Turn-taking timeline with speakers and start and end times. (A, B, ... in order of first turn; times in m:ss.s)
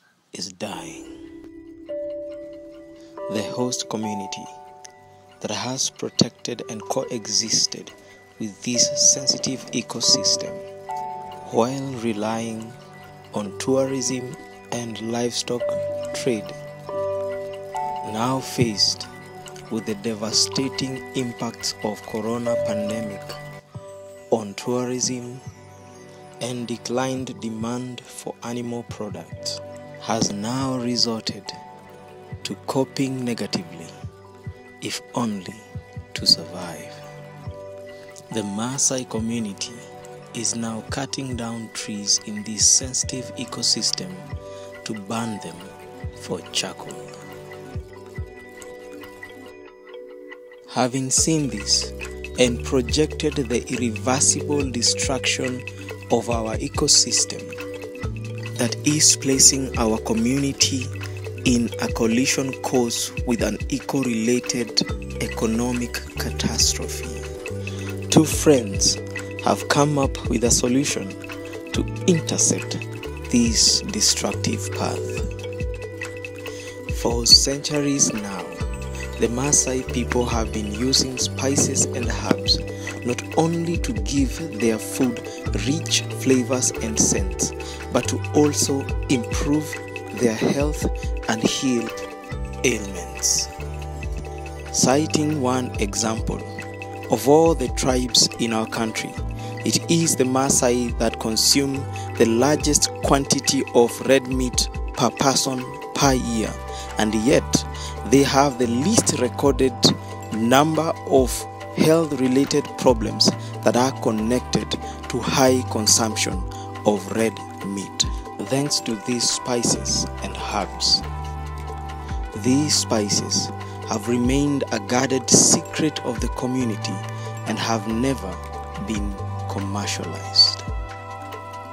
0:00.3-0:01.1 A
0:03.3-0:04.5 A
0:05.4-0:10.6 A
0:11.4-0:12.8 A
0:13.3-0:16.6 A
0:18.0-0:19.1 A
0:19.7-0:23.4 A
0:24.3-0:25.4 A
0:26.4-0:31.5 A
0:32.4-0:33.9 A
0:34.8-0:37.0 A
0:38.3-0:44.2 A
0:44.8-0:47.2 A
0:50.7-0:57.6 A
0:58.5-1:00.9 A
1:01.4-1:07.2 A
1:08.1-1:11.2 A
1:11.7-1:15.3 A
1:16.9-1:18.6 A
1:19.2-1:31.9 A
1:32.6-1:33.5 A
1:34.7-1:36.5 A
1:37.1-2:01.0 A
2:02.3-2:10.6 A